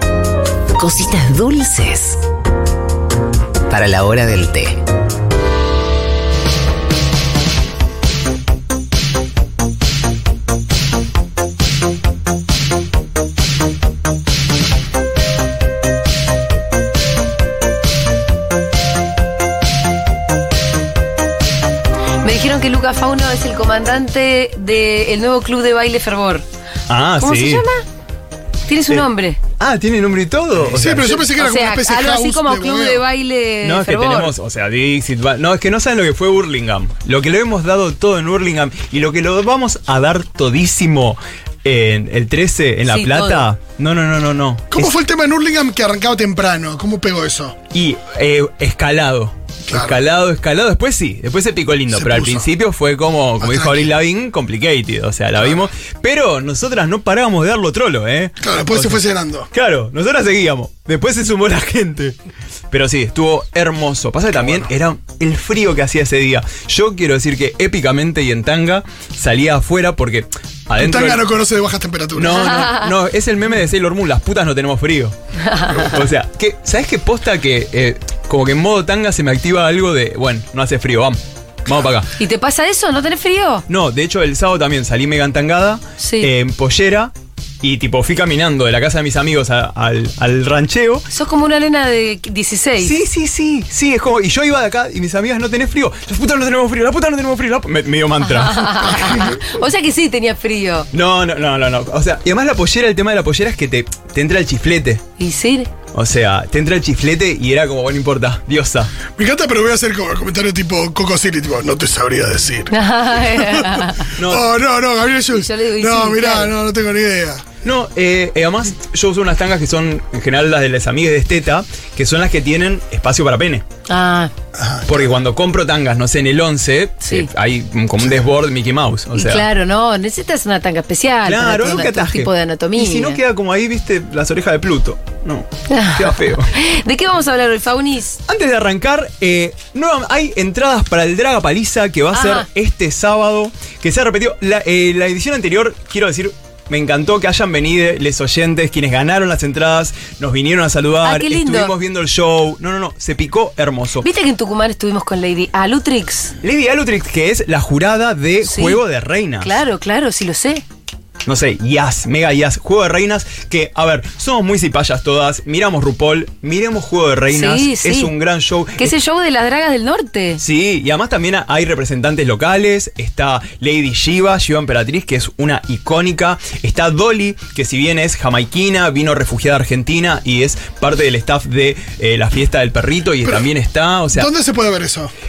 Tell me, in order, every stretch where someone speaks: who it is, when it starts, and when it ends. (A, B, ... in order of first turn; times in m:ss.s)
0:00.8-0:02.2 A
0:03.7-0:04.8 A
0:22.2-0:26.4 B
0:26.9-0:27.6 C
0:27.2-0:27.8 B
0:28.7-0:29.4 B
0:29.6-0:31.3 C
0:30.6-0:33.0 D
0:31.4-0:34.3 B
0:33.6-0:44.9 C
0:42.9-0:43.4 B
0:44.7-0:47.6 D
0:47.7-1:02.1 C
0:49.7-0:50.0 D
0:51.9-0:52.4 D
0:53.4-0:53.9 D
0:58.4-0:59.5 D
1:02.7-1:11.2 C
1:10.8-1:12.7 D
1:12.1-1:15.2 C
1:12.3-1:12.9 B
1:15.4-1:15.9 B
1:15.7-1:22.1 C
1:22.2-1:23.6 B
1:23.7-1:31.0 C
1:26.0-1:26.3 B
1:31.1-1:33.0 B
1:32.8-1:39.3 C
1:38.2-1:40.9 B
1:40.9-1:45.0 C
1:45.2-1:45.7 B
1:45.9-1:48.9 C
1:49.1-1:52.7 D
1:52.7-1:54.1 B
1:53.2-1:57.4 D
1:54.2-1:54.5 C
1:55.3-1:56.5 B
1:57.6-2:03.6 C
2:03.9-2:04.3 B
2:04.6-2:05.0 D
2:04.8-2:09.4 C
2:07.0-2:07.3 B
2:09.1-2:13.2 B
2:11.2-2:16.5 C
2:15.7-2:18.2 B
2:18.3-2:34.0 C
2:22.1-2:22.4 B
2:31.0-2:31.7 B
2:34.0-2:36.3 B
2:36.4-2:39.5 C
2:38.4-2:38.8 B
2:39.4-2:40.6 B
2:41.2-2:48.9 C
2:47.3-2:48.1 B
2:48.8-2:50.4 B
2:50.4-3:04.3 C
3:04.1-3:05.1 D